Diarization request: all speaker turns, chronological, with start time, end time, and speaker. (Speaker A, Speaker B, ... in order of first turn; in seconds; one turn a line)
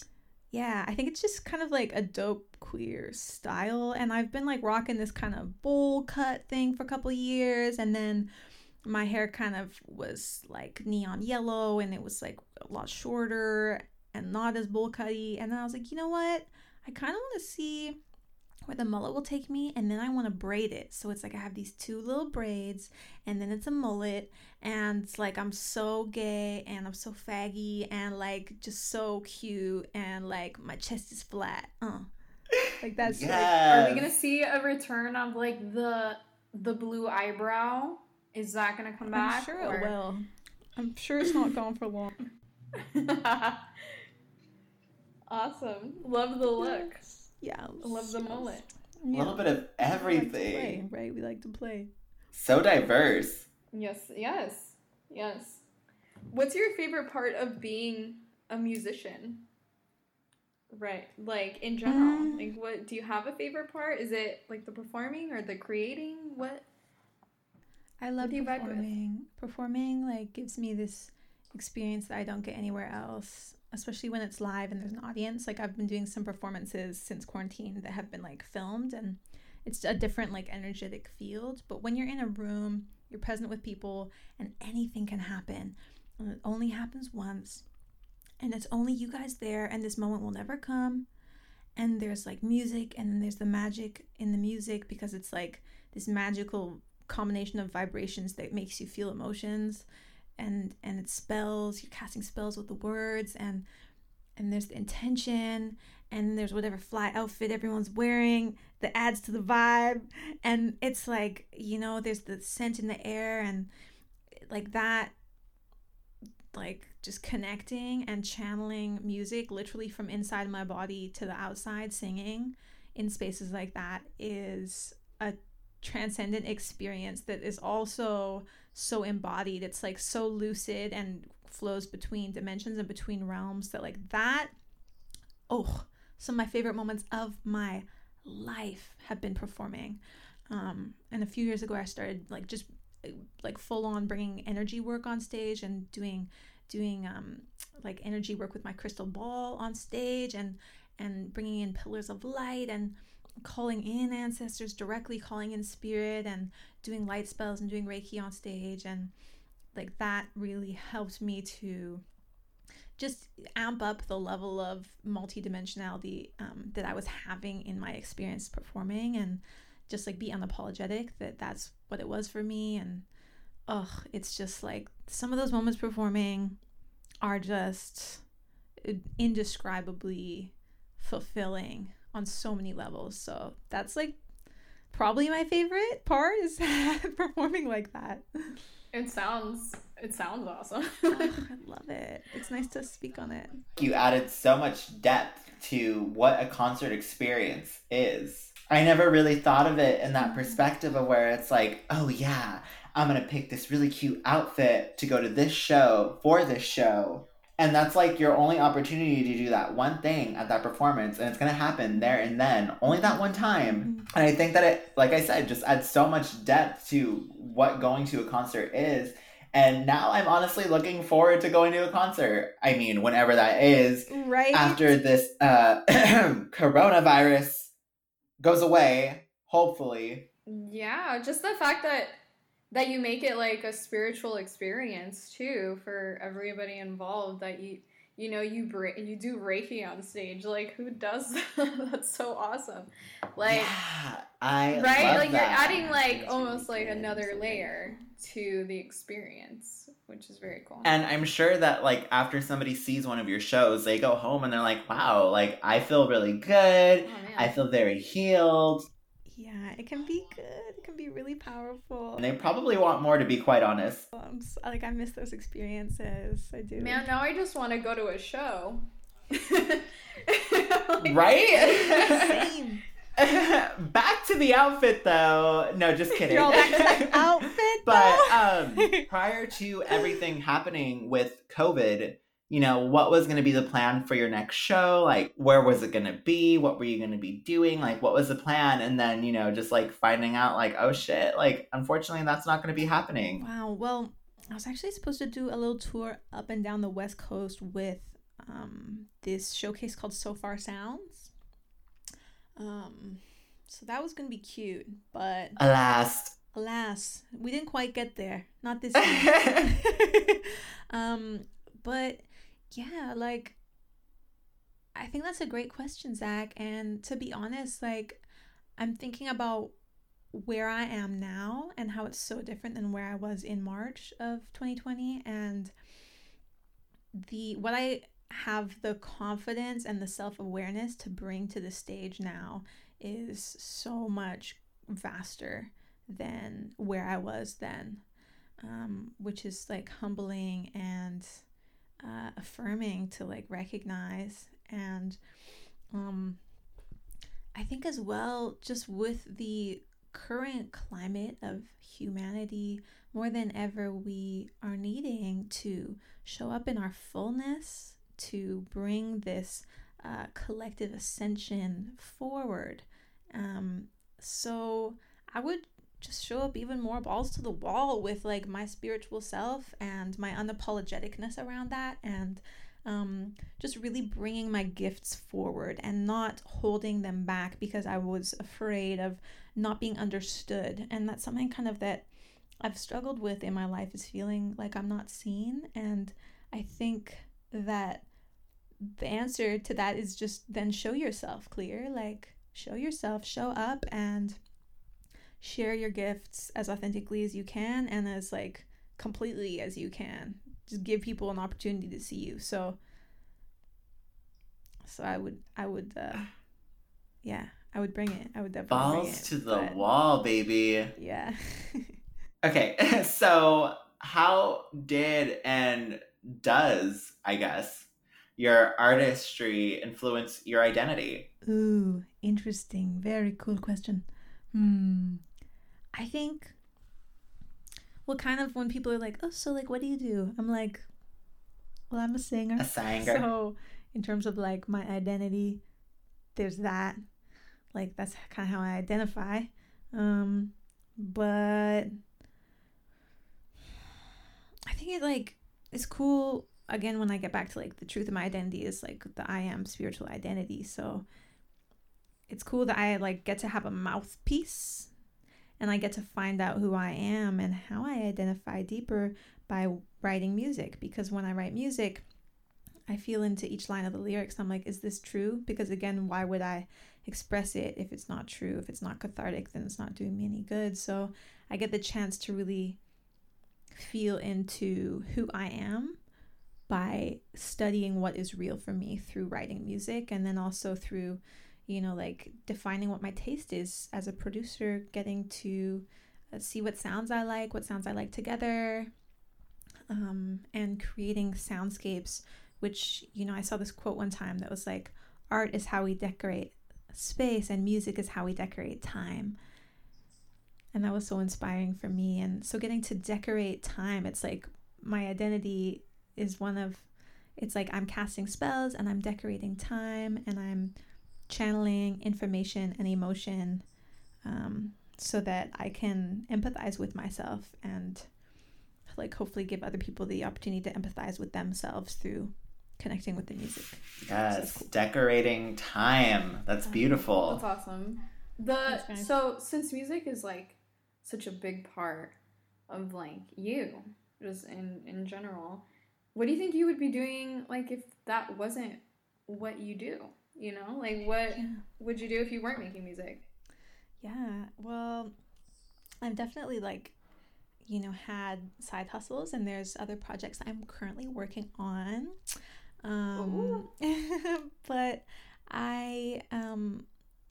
Speaker A: 0.5-8.3
Speaker A: 8.8-18.0
Speaker A: 18.6-32.1
Speaker B: 32.5-34.1
Speaker A: 32.8-33.6
Speaker C: 33.7-39.9
Speaker A: 39.1-42.1
Speaker C: 42.7-43.8
Speaker C: 45.3-47.0
Speaker A: 46.4-51.9
Speaker C: 47.8-48.7
Speaker B: 49.1-50.8
Speaker B: 52.3-53.5
Speaker C: 53.7-55.6
Speaker C: 56.3-59.4
Speaker C: 60.7-66.7
Speaker A: 61.9-62.5
Speaker A: 68.0-87.6
Speaker C: 68.2-68.8
Speaker A: 88.4-91.0
Speaker A: 91.8-99.8
Speaker A: 100.4-103.6
Speaker A: 104.4-113.7
Speaker A: 114.5-115.1
Speaker A: 116.5-134.5
Speaker A: 135.5-140.0
Speaker A: 140.5-159.1
Speaker A: 159.7-162.0
Speaker A: 163.0-173.0
Speaker A: 173.7-176.6
Speaker A: 177.2-178.2
Speaker A: 178.8-184.2
Speaker A: 184.9-188.6
Speaker C: 188.9-191.4
Speaker A: 191.1-193.6
Speaker B: 193.8-227.7
Speaker A: 200.2-200.6
Speaker A: 212.8-214.1
Speaker A: 224.1-224.9
Speaker B: 228.4-230.3
Speaker C: 230.4-232.1
Speaker C: 232.7-243.7
Speaker B: 243.4-246.1
Speaker C: 244.7-250.9
Speaker A: 245.0-248.0
Speaker B: 250.8-258.9
Speaker C: 257.0-257.6
Speaker A: 259.3-262.2
Speaker B: 262.2-264.1
Speaker A: 264.1-267.1
Speaker C: 266.8-272.4
Speaker B: 271.0-272.4
Speaker A: 271.9-272.8
Speaker B: 273.2-293.4
Speaker C: 276.3-277.0
Speaker A: 276.3-279.0
Speaker A: 293.4-301.3
Speaker A: 302.6-305.6
Speaker B: 305.6-306.4
Speaker A: 306.5-313.6
Speaker B: 309.0-309.6
Speaker A: 314.9-318.2
Speaker A: 318.8-319.7
Speaker A: 320.3-325.7
Speaker A: 327.1-338.0
Speaker A: 338.6-341.4
Speaker A: 342.0-345.2
Speaker A: 345.9-346.4
Speaker A: 347.5-382.0
Speaker A: 382.6-388.0
Speaker A: 388.8-394.4
Speaker A: 395.4-402.8
Speaker A: 404.8-406.3
Speaker A: 407.2-409.8
Speaker B: 408.7-410.9
Speaker A: 410.9-411.9
Speaker B: 412.4-421.3
Speaker A: 421.4-425.2
Speaker A: 425.9-426.5
Speaker A: 428.1-430.9
Speaker A: 431.9-435.6
Speaker B: 432.6-433.2
Speaker A: 436.3-437.0
Speaker A: 437.7-441.9
Speaker A: 444.7-451.0
Speaker A: 452.3-454.9
Speaker A: 455.6-462.0
Speaker A: 462.9-472.8
Speaker A: 473.7-476.0
Speaker A: 476.7-488.9
Speaker A: 489.9-499.3
Speaker A: 500.7-510.7
Speaker A: 511.3-513.6
Speaker A: 514.2-518.0
Speaker A: 518.9-524.7
Speaker B: 524.0-527.4
Speaker A: 526.7-527.0
Speaker C: 527.1-532.1
Speaker A: 528.7-529.1
Speaker C: 532.7-543.2
Speaker A: 541.3-541.6
Speaker A: 544.0-545.1
Speaker A: 546.0-546.9
Speaker A: 547.6-552.2
Speaker A: 552.8-556.8
Speaker C: 553.1-553.6